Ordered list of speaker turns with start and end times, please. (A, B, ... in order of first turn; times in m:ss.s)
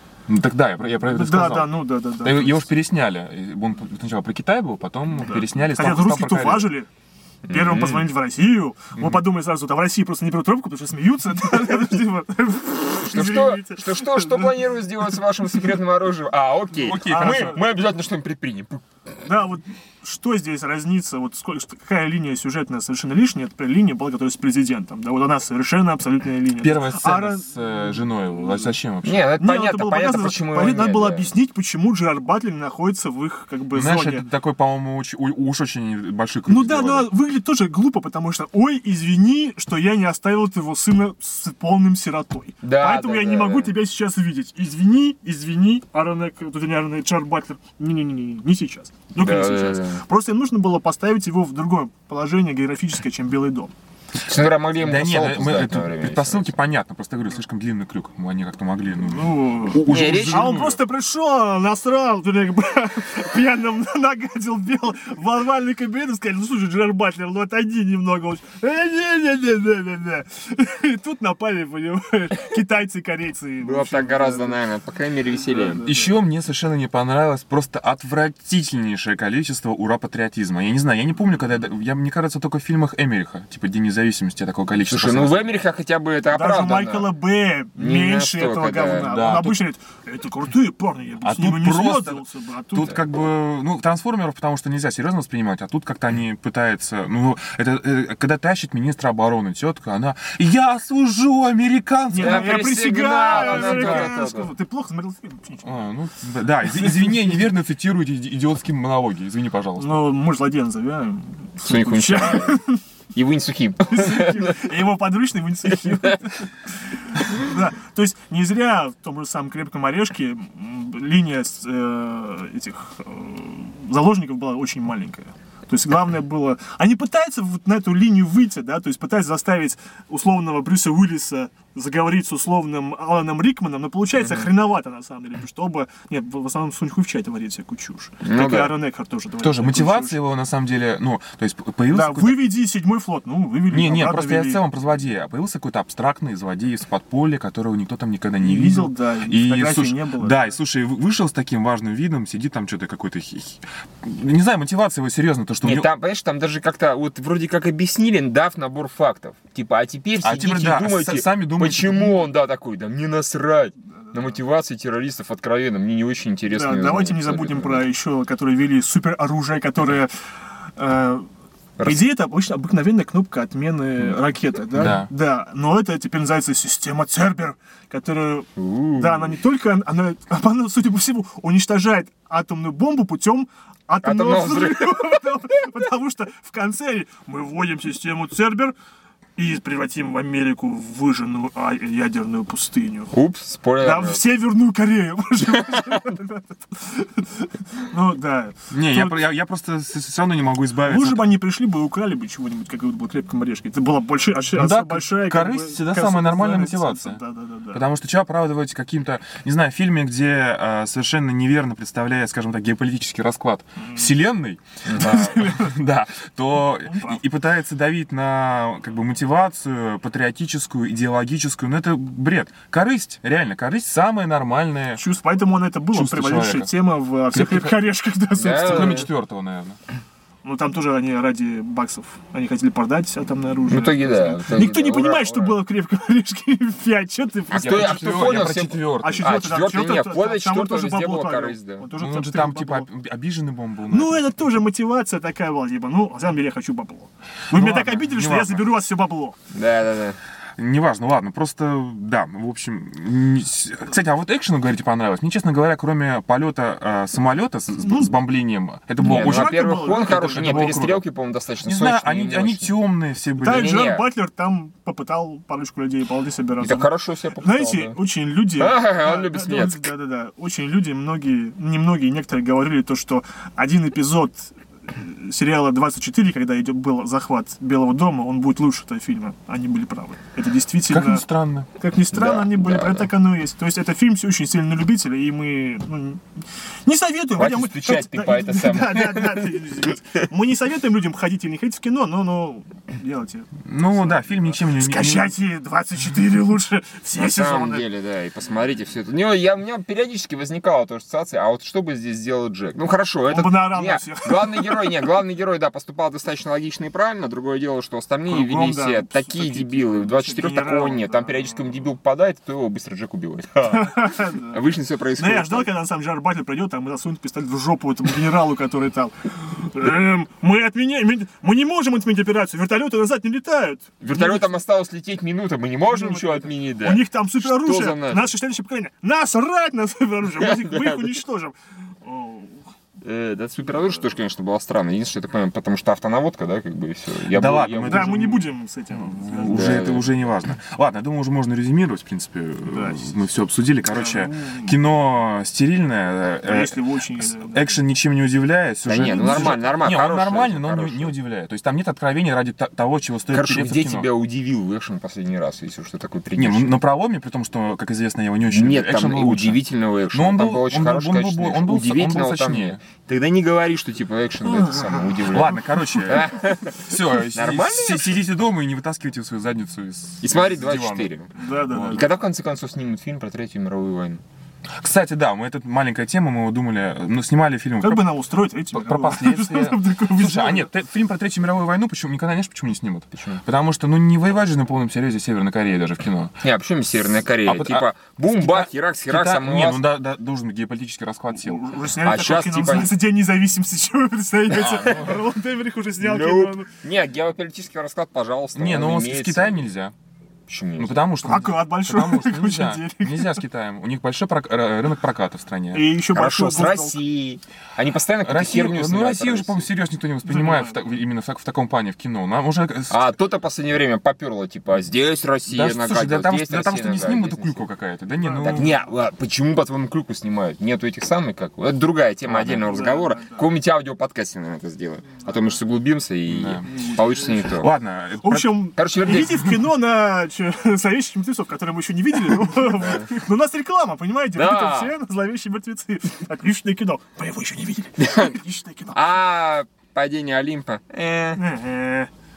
0:00.3-0:06.7 A
0:01.0-0:02.7 B
0:05.2-0:06.9 B
0:07.5-0:08.1 C
0:07.5-0:14.7 B
0:09.0-0:09.2 A
0:13.0-0:18.8 C
0:16.8-0:17.6 A
0:17.0-0:17.6 B
0:19.2-0:27.6 B
0:26.6-0:29.3 A
0:29.0-0:31.3 C
0:29.4-0:34.3 B
0:33.7-0:37.1 A
0:36.5-0:53.7 B
0:42.6-0:43.7 C
0:49.2-0:50.0 C
0:54.2-0:56.5 C
0:54.8-1:00.8 A
0:59.0-1:14.6 B
0:59.9-1:00.5 C
1:13.6-1:15.8 C
1:15.3-1:16.1 B
1:15.8-1:25.4 A
1:24.8-1:27.1 C
1:26.3-1:32.9 B
1:27.8-1:29.1 C
1:29.0-1:29.6 A
1:31.2-1:42.6 A
1:42.1-1:45.9 B
1:42.2-1:44.5 C
1:43.3-1:44.1 A
1:45.6-1:50.0 A
1:46.8-1:47.2 B
1:49.8-1:52.8 B
1:51.6-1:52.6 C
1:53.2-1:54.6 C
1:53.8-1:56.5 B
1:57.1-2:20.2 B
2:14.2-2:14.5 C
2:18.2-2:18.8 C
2:19.4-2:22.5 A
2:21.9-2:24.6 B
2:23.7-2:35.9 A
2:28.4-2:30.6 B
2:35.6-2:47.9 C
2:40.2-2:42.3 A
2:46.5-2:50.1 B
2:50.8-2:51.3 B
2:51.8-2:52.1 C
2:51.8-3:08.7 B
2:54.7-2:55.1 A
2:58.6-2:59.4 C
3:04.0-3:05.1 C
3:09.4-3:13.1 B
3:13.1-3:14.2 C
3:13.8-3:19.2 B
3:18.7-3:21.3 A
3:20.8-3:27.8 B
3:24.5-3:27.2 A
3:27.7-3:45.0 A
3:34.9-3:35.7 B
3:36.8-3:37.2 B
3:44.9-3:49.1 B
3:45.9-3:46.7 A
3:47.3-3:47.8 A
3:48.4-3:49.1 C
3:48.6-3:49.8 A
3:50.4-3:58.5 B
3:53.7-3:55.6 C
3:57.5-3:59.3 A
3:57.5-4:01.9 C
3:59.0-4:02.9 B
4:02.0-4:04.2 A
4:03.9-4:09.4 B
4:07.5-4:08.7 A
4:09.5-4:10.2 C
4:10.6-4:21.0 A
4:17.8-4:18.2 B
4:19.0-4:22.8 C
4:19.0-4:20.8 B
4:21.6-4:23.7 A
4:23.4-4:41.2 B
4:23.4-4:24.1 C
4:26.6-4:28.0 C
4:28.6-4:29.9 C
4:40.9-4:41.7 A
4:41.8-4:46.2 B
4:42.1-4:43.1 C
4:46.8-4:57.9 B
4:47.4-4:49.8 C
4:53.6-4:55.3 A
4:57.2-5:15.7 C
5:03.3-5:05.0 B
5:08.3-5:11.7 B
5:13.6-5:14.6 B
5:15.2-5:24.5 B
5:24.0-5:28.3 C
5:25.9-5:32.6 B
5:30.2-5:31.1 C
5:33.0-5:38.2 C
5:37.3-5:54.1 A
5:37.9-5:39.8 B
5:39.5-5:40.1 C
5:42.6-5:43.1 B
5:43.8-5:44.8 B
5:46.4-5:47.8 B
5:48.8-5:51.1 C
5:53.3-5:56.8 C
5:56.4-6:02.8 A
5:58.5-6:08.1 C
6:04.4-6:05.2 B
6:05.2-6:12.1 A
6:10.2-6:11.3 C
6:11.4-6:12.1 B
6:11.9-6:14.2 C
6:14.8-6:18.1 A
6:17.8-6:20.7 B
6:18.6-6:26.4 A
6:23.1-6:23.4 C
6:26.4-6:29.9 C
6:27.4-6:31.6 A
6:31.3-6:36.7 B
6:32.0-6:33.0 C
6:34.5-6:35.2 A
6:34.7-6:35.1 C
6:36.0-6:39.6 C
6:38.6-6:39.9 A
6:40.5-6:41.1 C
6:40.8-6:45.9 A
6:41.2-6:43.4 B
6:45.7-6:47.0 B
6:46.1-6:49.7 C
6:48.2-6:53.2 A
6:50.2-6:50.8 B
6:52.9-6:57.7 C
6:55.5-6:58.8 A
6:58.2-6:58.8 B
6:58.4-7:07.7 C
7:02.2-7:02.8 A
7:02.6-7:03.5 B
7:06.2-7:06.9 A
7:06.7-7:07.4 B
7:07.4-7:08.7 A
7:08.2-7:19.1 B
7:08.8-7:09.6 C
7:14.4-7:14.9 C
7:18.0-7:18.3 C
7:18.9-7:21.4 C
7:21.4-7:22.1 B